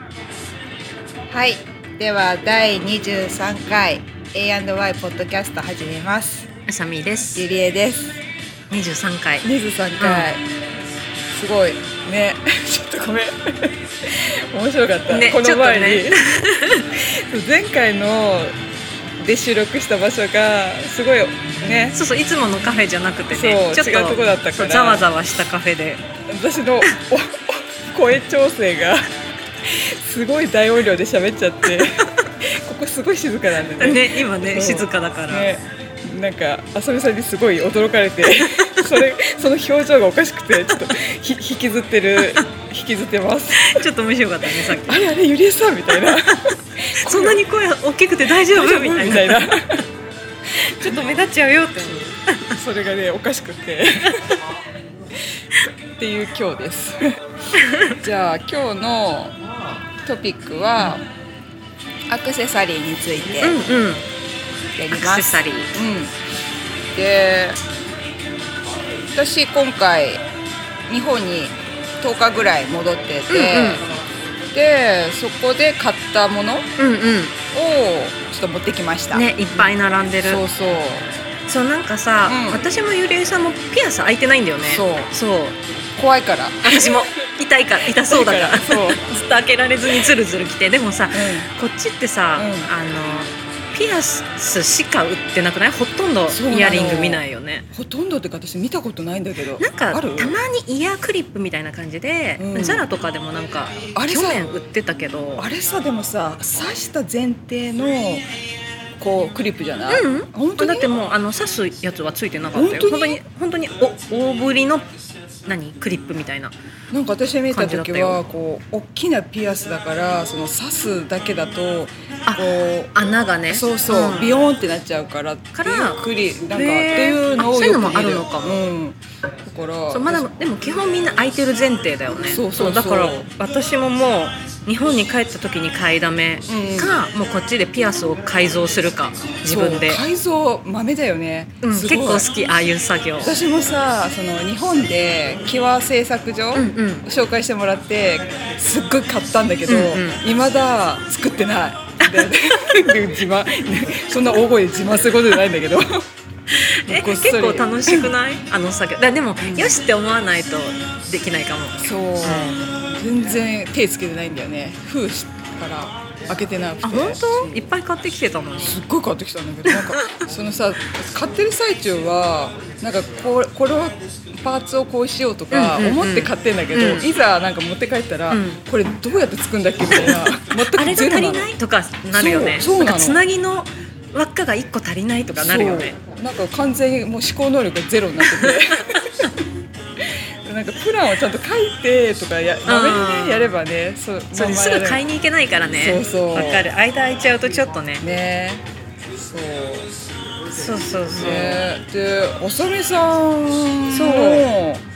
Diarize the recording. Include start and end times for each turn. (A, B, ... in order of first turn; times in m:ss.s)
0:01.3-0:06.5 A
0:06.7-0:07.4 B
0:07.4-0:08.2 A
0:08.7-0:09.5 B
0:09.4-0:10.4 A
0:10.0-0:10.3 B
0:11.3-0:16.2 A
0:15.1-0:17.0 B
0:16.9-0:18.6 A
0:19.2-0:22.0 A
0:21.9-0:26.0 B
0:23.3-0:25.0 A
0:26.3-0:29.1 A
0:29.6-0:43.8 A
0:31.8-0:32.3 B
0:33.8-0:35.5 B
0:38.4-0:38.9 B
0:43.5-0:45.0 B
0:44.5-0:47.4 A
0:46.1-0:49.5 B
0:48.3-0:49.8 A
0:50.5-0:52.6 B
0:52.5-0:54.4 A
0:56.0-0:57.2 A
0:57.5-0:58.0 B
0:57.9-0:59.4 A
1:00.0-1:01.0 A
1:02.1-1:03.6 A
1:03.4-1:04.1 B
1:04.8-1:06.1 A
1:04.9-1:05.7 B
1:06.9-1:07.6 A
1:09.1-1:10.2 A
1:10.9-1:13.8 A
1:13.3-1:13.8 B
1:14.5-1:16.7 A
1:16.8-1:17.3 B
1:17.5-1:19.7 A
1:19.1-1:20.4 B
1:20.2-1:21.1 A
1:21.5-1:25.6 B
1:22.2-1:22.6 A
1:24.6-1:25.1 A
1:26.0-1:27.0 A
1:26.6-1:37.7 B
1:27.9-1:29.0 A
1:31.1-1:31.5 A
1:32.4-1:32.7 A
1:36.3-1:40.3 A
1:39.6-1:45.5 B
1:42.4-1:42.8 A
1:43.9-1:44.4 A
1:45.4-1:48.3 A
1:49.0-1:50.9 A
1:49.9-1:54.9 B
1:52.5-1:53.2 A
1:55.4-1:56.5 B
1:56.9-2:02.9 A
1:57.5-1:58.2 B
2:02.2-2:04.4 B
2:03.5-2:10.3 A
2:05.5-2:08.6 B
2:09.9-2:20.0 B
2:12.2-2:13.3 A
2:16.5-2:17.0 A
2:19.4-2:22.3 A
2:21.6-2:23.3 B
2:23.2-2:36.0 A
2:26.5-2:27.0 B
2:29.7-2:30.2 B
2:32.0-2:32.3 B
2:36.5-2:42.7 B
2:36.9-2:38.1 A
2:39.4-2:39.8 A
2:41.8-2:47.6 A
2:46.8-2:48.8 B
2:48.6-3:01.5 A
2:49.7-2:50.2 B
2:55.5-2:57.1 B
2:58.3-2:58.6 B
2:59.9-3:05.9 B
3:02.1-3:03.2 A
3:05.4-3:09.3 A
3:08.3-3:09.0 B
3:10.0-3:15.0 A
3:12.7-3:13.6 B
3:14.3-3:18.0 B
3:15.8-3:16.7 A
3:18.0-3:19.9 A
3:20.5-3:21.6 B
3:21.1-3:24.8 A
3:23.9-3:24.5 B